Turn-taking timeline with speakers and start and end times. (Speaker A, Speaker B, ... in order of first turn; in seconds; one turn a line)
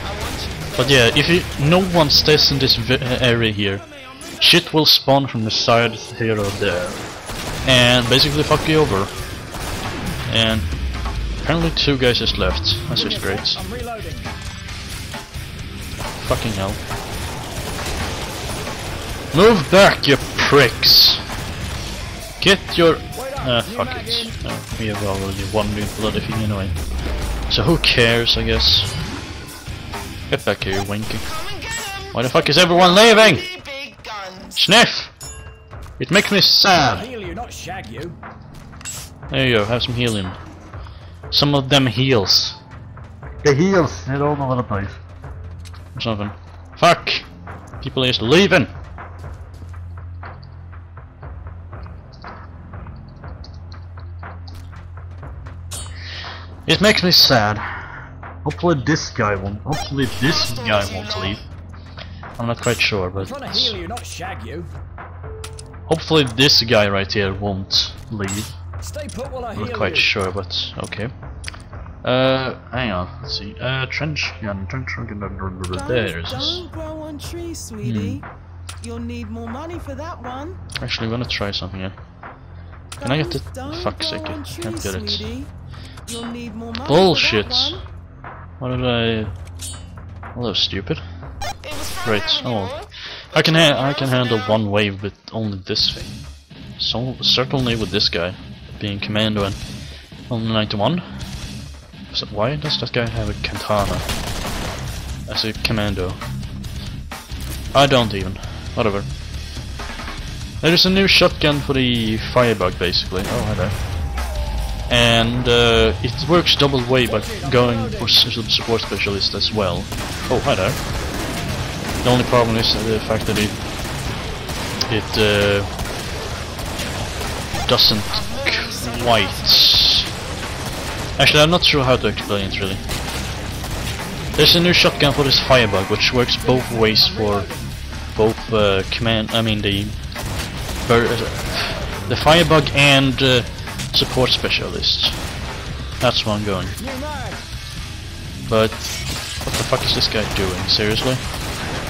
Speaker A: 0.7-3.8
Speaker A: 4.4-7.0
Speaker A: 7.6-9.1
Speaker A: 10.3-10.7
Speaker A: 11.4-13.6
Speaker B: 12.9-14.3
Speaker A: 16.2-16.8
Speaker A: 19.3-21.2
Speaker A: 22.4-26.7
Speaker B: 23.1-24.3
Speaker A: 27.5-28.9
Speaker A: 30.3-31.3
Speaker A: 32.1-33.5
Speaker C: 33.8-34.2
Speaker A: 34.5-35.1
Speaker A: 36.0-37.1
Speaker B: 36.8-38.2
Speaker A: 39.3-40.4
Speaker A: 41.3-42.6
Speaker A: 43.4-45.0
Speaker A: 45.9-47.3
Speaker A: 47.8-48.7
Speaker A: 56.6-57.6
Speaker A: 58.4-61.4
Speaker A: 62.4-63.8
Speaker B: 63.1-64.7
Speaker A: 65.9-68.5
Speaker B: 68.8-70.1
Speaker A: 69.5-71.1
Speaker A: 72.0-76.7
Speaker C: 76.0-77.9
Speaker A: 77.8-78.2
Speaker C: 78.8-80.6
Speaker A: 80.8-82.0
Speaker A: 83.0-85.4
Speaker C: 83.4-85.5
Speaker C: 86.1-87.7
Speaker A: 86.8-87.8
Speaker A: 88.6-89.3
Speaker A: 90.3-91.0
Speaker A: 91.9-96.1
Speaker A: 96.8-99.6
Speaker A: 100.3-101.0
Speaker A: 102.1-104.0
Speaker A: 105.3-106.2
Speaker A: 107.7-109.1
Speaker A: 110.6-113.8
Speaker A: 114.9-120.8
Speaker B: 117.1-118.2
Speaker A: 122.0-123.6
Speaker A: 124.9-125.7
Speaker A: 127.6-130.1
Speaker A: 131.2-132.8
Speaker A: 134.4-137.5
Speaker B: 136.4-137.7
Speaker A: 138.1-139.9
Speaker A: 140.8-145.2
Speaker A: 146.0-146.8
Speaker B: 146.8-147.4
Speaker A: 148.5-151.2